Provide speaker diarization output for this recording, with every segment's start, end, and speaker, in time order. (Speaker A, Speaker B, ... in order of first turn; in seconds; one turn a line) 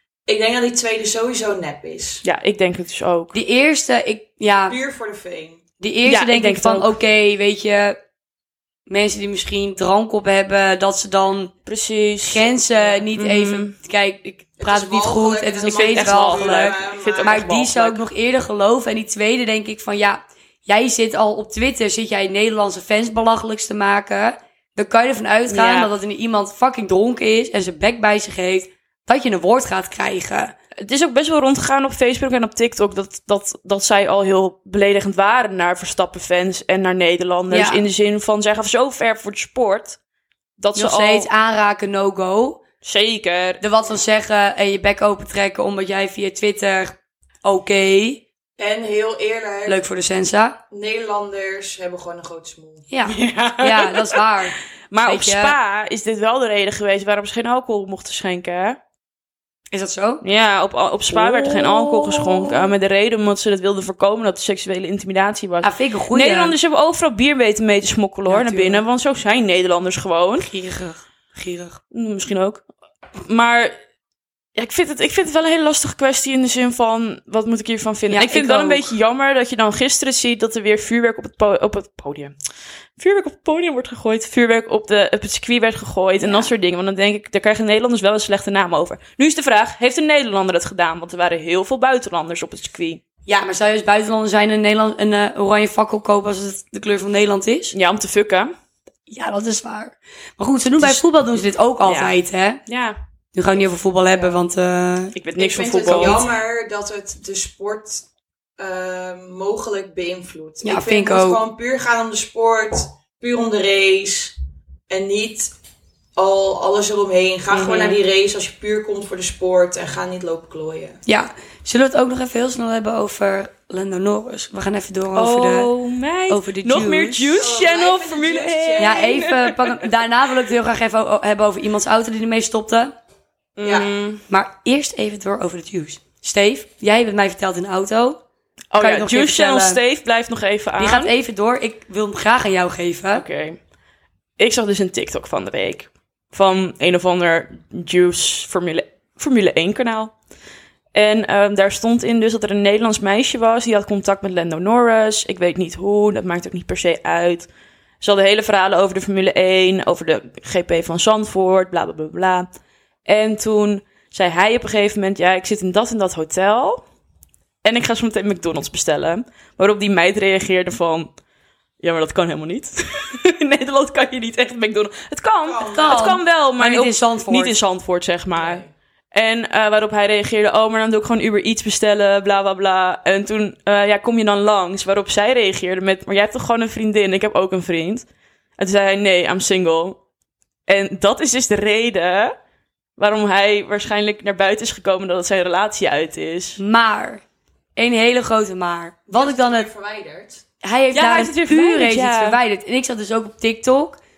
Speaker A: 0.3-2.2
Speaker B: 2.2-3.4
Speaker C: 3.3-4.8
Speaker A: 4.7-5.6
Speaker C: 5.8-8.0
Speaker B: 6.0-7.0
Speaker C: 8.9-11.5
Speaker B: 11.7-12.6
Speaker C: 12.2-30.5
Speaker B: 13.1-13.7
Speaker A: 14.6-17.5
Speaker B: 15.7-18.0
Speaker B: 25.5-25.9
Speaker B: 30.8-40.0
Speaker C: 37.5-37.8
Speaker B: 40.6-41.3
Speaker C: 40.7-42.6
Speaker B: 42.8-43.6
Speaker C: 43.6-48.2
Speaker A: 48.6-49.8
Speaker C: 49.6-50.6
Speaker A: 50.7-52.9
Speaker C: 52.9-55.5
Speaker B: 53.1-54.2
Speaker B: 54.9-58.8
Speaker C: 59.7-60.2
Speaker B: 60.2-70.5
Speaker C: 61.1-62.7
Speaker C: 65.6-66.5
Speaker C: 68.3-68.8
Speaker C: 70.4-71.8
Speaker B: 71.9-72.6
Speaker B: 73.2-73.8
Speaker B: 74.5-82.3
Speaker C: 78.1-78.9
Speaker B: 83.0-93.0
Speaker C: 86.2-86.5
Speaker C: 93.2-97.7
Speaker B: 97.7-98.5
Speaker C: 99.1-102.6
Speaker B: 101.8-102.1
Speaker B: 102.7-103.0
Speaker C: 103.3-105.1
Speaker A: 104.1-104.4
Speaker B: 105.2-106.2
Speaker A: 105.4-108.0
Speaker C: 105.8-106.2
Speaker A: 108.6-114.3
Speaker C: 110.6-111.4
Speaker A: 114.9-115.5
Speaker A: 116.2-121.0
Speaker B: 117.5-118.0
Speaker C: 121.0-125.7
Speaker B: 125.1-129.9
Speaker C: 126.3-127.4
Speaker A: 127.4-129.1
Speaker C: 128.8-132.9
Speaker B: 133.6-134.2
Speaker C: 134.3-138.2
Speaker B: 138.7-141.1
Speaker C: 138.8-139.8
Speaker C: 140.8-143.2
Speaker B: 143.1-143.6
Speaker B: 144.4-150.1
Speaker B: 150.9-157.5
Speaker B: 158.0-162.5
Speaker B: 163.1-166.8
Speaker B: 167.6-171.1
Speaker B: 171.8-188.1
Speaker A: 175.4-176.2
Speaker C: 175.7-177.6
Speaker A: 178.3-178.7
Speaker B: 188.6-190.0
Speaker B: 190.7-192.3
Speaker B: 193.0-196.6
Speaker C: 196.6-197.2
Speaker C: 197.8-199.7
Speaker A: 199.1-200.4
Speaker C: 200.6-204.0
Speaker B: 200.9-202.4